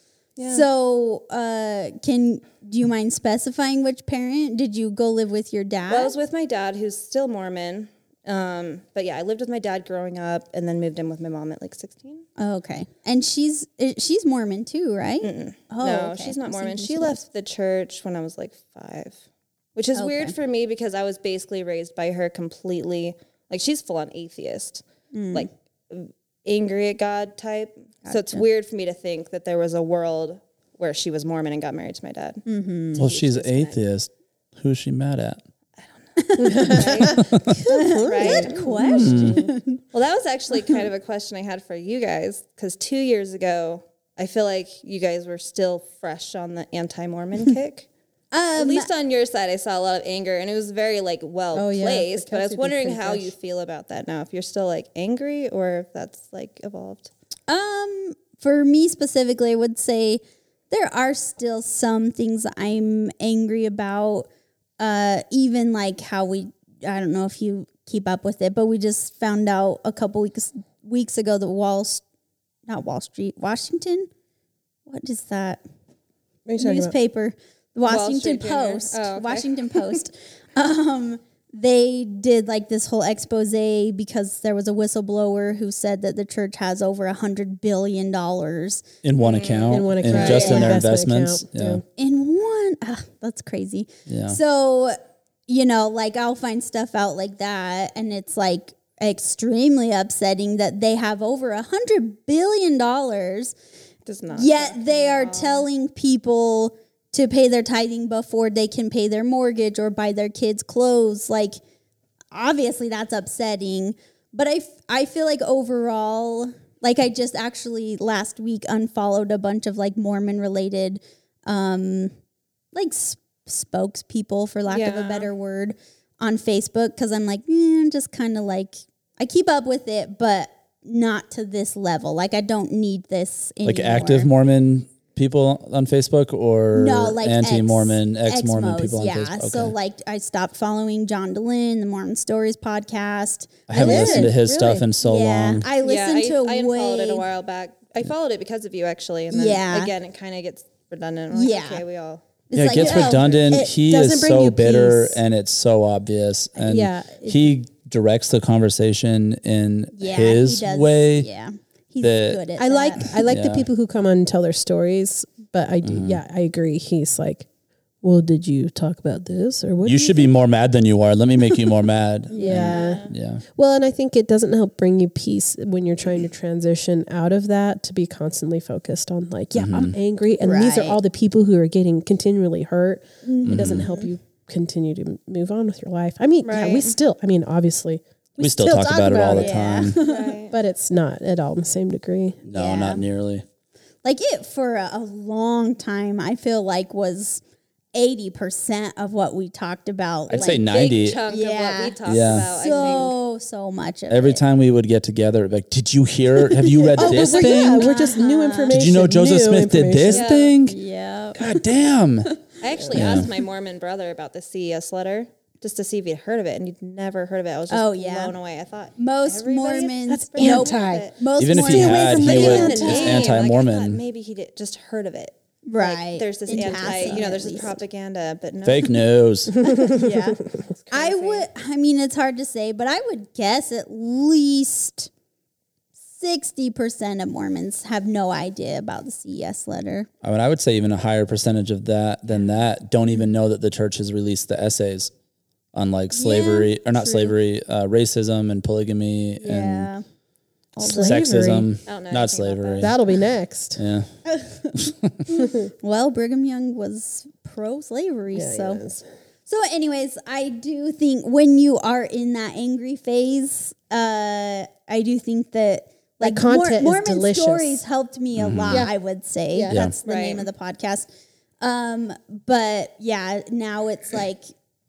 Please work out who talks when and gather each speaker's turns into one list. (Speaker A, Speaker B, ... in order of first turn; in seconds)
Speaker A: 0.3-0.7, 5.9-12.2, 15.2-19.2, 19.7-33.8, 35.8-38.6, 39.9-47.9, 48.5-57.1, 77.8-80.0, 89.2-90.8, 104.0-105.7, 124.7-125.3, 145.8-153.5, 172.6-173.1, 186.4-187.0, 190.0-190.6, 200.3-203.2, 210.1-210.5, 212.6-221.2, 222.2-229.0, 230.9-231.4, 251.9-252.9, 270.0-270.5
Speaker B: 0.5-6.1, 12.4-17.2, 19.9-20.3, 25.1-25.5, 28.0-28.4, 32.5-33.0, 36.2-39.8, 48.3-48.9, 57.5-64.3, 64.8-72.0, 72.7-74.1, 74.8-75.6, 76.6-88.8, 90.2-90.8, 92.0-103.5, 104.3-111.6, 112.3-122.1, 122.7-134.3, 136.7-144.4, 145.0-147.2, 149.3-149.9, 151.3-151.8, 152.5-153.7, 159.9-163.1, 172.3-172.7, 180.4-181.0, 183.2-184.1, 189.2-190.3, 192.5-193.0, 194.0-197.4, 197.9-200.7, 201.3-204.4, 206.6-208.8, 210.7-211.5, 217.7-218.3, 219.0-223.0, 225.7-227.8, 229.6-235.1, 236.1-240.1, 246.1-247.3, 249.4-250.0, 250.8-251.2, 254.2-258.8, 259.5-271.1, 271.6-274.5
Speaker C: 33.0-35.4, 38.9-39.5, 89.0-91.8, 94.1-94.4, 133.6-139.7, 143.7-145.7, 152.5-161.3, 162.0-162.4, 163.2-163.7, 165.8-166.2, 169.8-173.4, 179.5-179.9, 183.4-183.9, 188.4-189.9, 192.4-193.4, 200.3-201.2, 202.0-202.8, 204.1-208.0, 208.7-210.8, 211.3-212.4, 212.9-213.3, 221.4-224.0, 228.6-229.7, 240.2-245.1, 245.7-249.9, 250.8-253.2, 253.8-254.1, 254.7-255.2, 268.4-268.9
Speaker D: 36.4-39.5, 51.5-53.3, 76.5-76.9, 89.7-91.8, 143.8-144.9, 153.5-155.2, 156.6-157.5, 162.6-167.5, 168.0-170.3, 172.3-189.6, 190.5-192.4, 206.8-210.3, 212.8-213.2, 220.1-223.4, 229.7-230.6, 250.8-251.7, 252.8-253.8, 258.3-259.0, 266.2-267.8, 269.5-269.9